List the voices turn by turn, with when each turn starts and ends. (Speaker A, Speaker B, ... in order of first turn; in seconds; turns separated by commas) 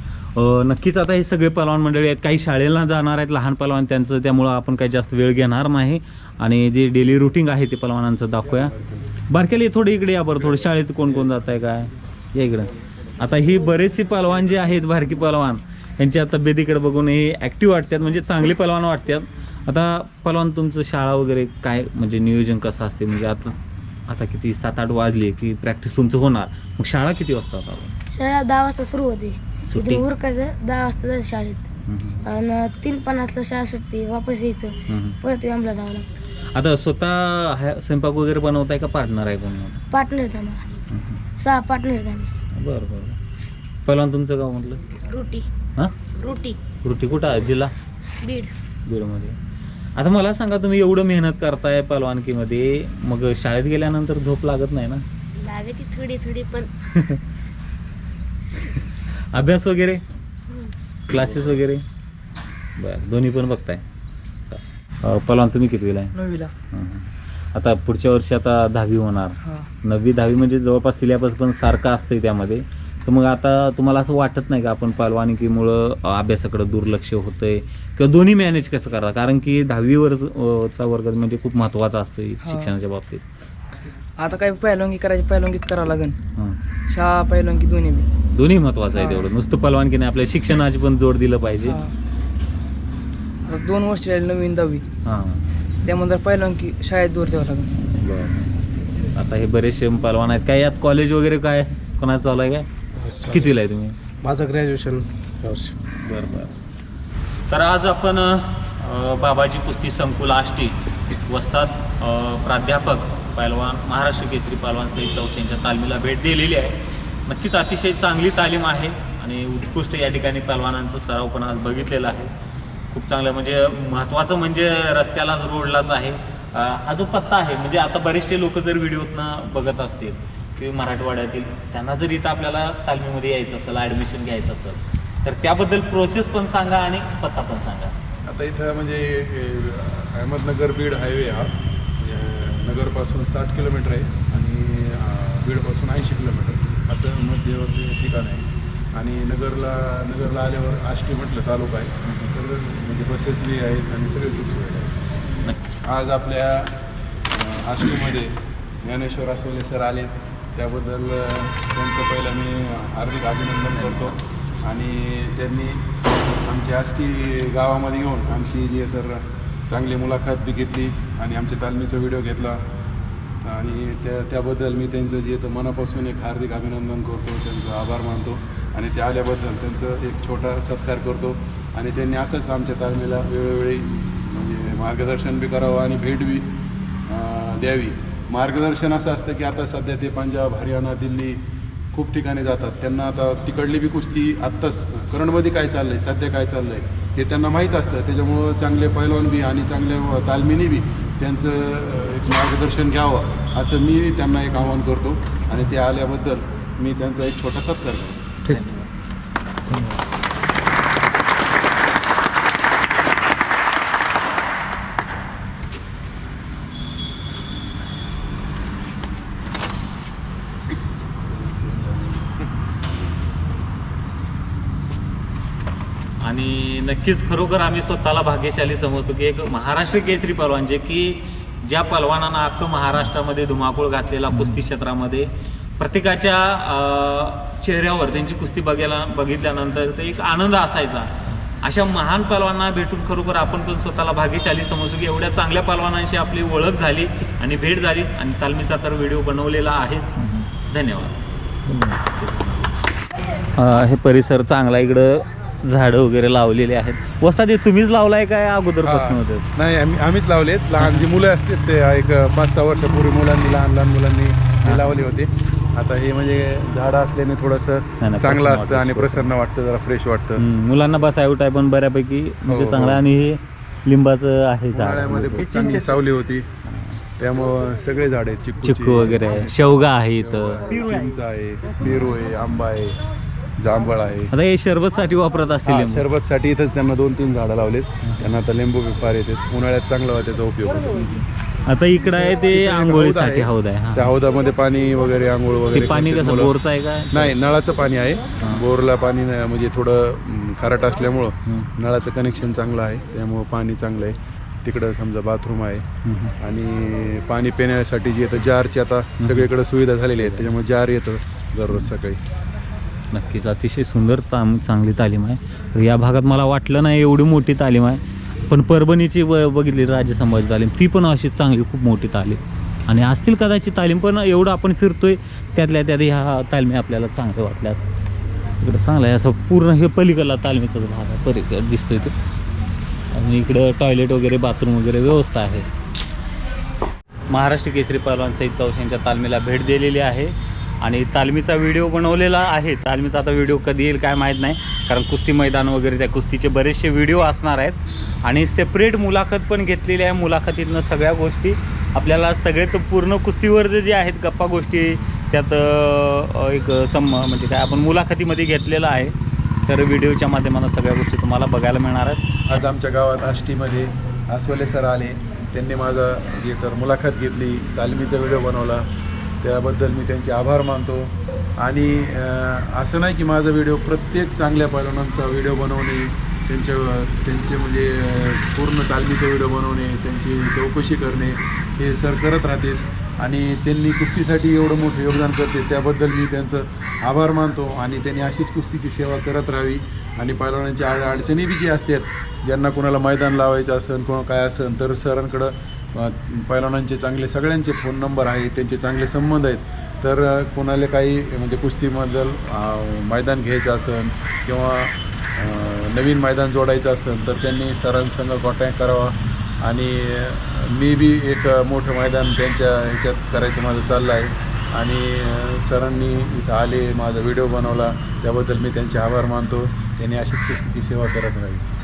Speaker A: 0.3-8.8, Speaker B: 8.6-9.0, Speaker A: 9.3-28.0, Speaker C: 28.1-31.7, Speaker A: 29.7-30.1, Speaker A: 31.9-32.2, Speaker C: 32.2-36.2, Speaker A: 34.9-35.2, Speaker A: 36.5-39.8, Speaker C: 39.9-40.6, Speaker A: 40.9-41.2, Speaker C: 41.4-42.3, Speaker A: 42.5-43.2, Speaker A: 43.9-44.9, Speaker C: 45.1-45.5, Speaker C: 46.1-46.6, Speaker A: 46.8-47.7, Speaker C: 48.2-48.5, Speaker A: 48.9-49.4, Speaker A: 50.0-55.0, Speaker C: 55.4-56.7, Speaker A: 56.9-57.2, Speaker A: 59.3-60.0, Speaker A: 61.1-61.8, Speaker A: 62.8-63.8, Speaker A: 64.5-66.1, Speaker D: 66.1-66.5, Speaker A: 66.7-83.2, Speaker D: 69.4-69.7, Speaker D: 82.4-82.7, Speaker D: 84.2-86.2, Speaker D: 86.9-88.1, Speaker A: 88.3-91.8, Speaker D: 88.9-89.3, Speaker D: 91.6-91.9, Speaker D: 93.5-94.8, Speaker A: 95.0-95.4, Speaker D: 95.8-97.7, Speaker A: 99.1-102.7, Speaker E: 103.0-103.5, Speaker A: 103.3-104.0, Speaker E: 104.2-105.7, Speaker A: 106.0-106.5, Speaker A: 107.5-122.3, Speaker A: 122.9-137.9, Speaker B: 138.3-155.0, Speaker A: 152.1-152.3, Speaker B: 155.8-172.6, Speaker B: 173.4-208.4, Speaker A: 208.4-208.8, Speaker A: 209.7-210.0, Speaker B: 221.2-222.4, Speaker B: 222.9-223.3, Speaker A: 226.2-252.5, Speaker A: 253.6-259.5, Speaker B: 258.8-270.4, Speaker A: 264.6-264.9, Speaker A: 268.0-269.3, Speaker A: 270.4-275.8, Speaker B: 272.5-273.1, Speaker B: 274.7-276.5, Speaker A: 276.7-277.0, Speaker B: 277.2-283.0, Speaker A: 278.6-280.6, Speaker B: 283.6-284.3, Speaker A: 284.3-286.1, Speaker B: 285.7-291.2, Speaker A: 291.0-294.1, Speaker B: 292.1-296.6, Speaker A: 295.7-297.3, Speaker B: 297.1-305.9, Speaker A: 306.1-306.3, Speaker B: 306.4-312.2, Speaker A: 309.2-309.5, Speaker A: 313.1-327.8, Speaker A: 328.6-332.1, Speaker A: 333.1-335.7, Speaker A: 337.3-359.1, Speaker A: 359.7-362.2, Speaker B: 362.5-368.9, Speaker B: 369.4-421.7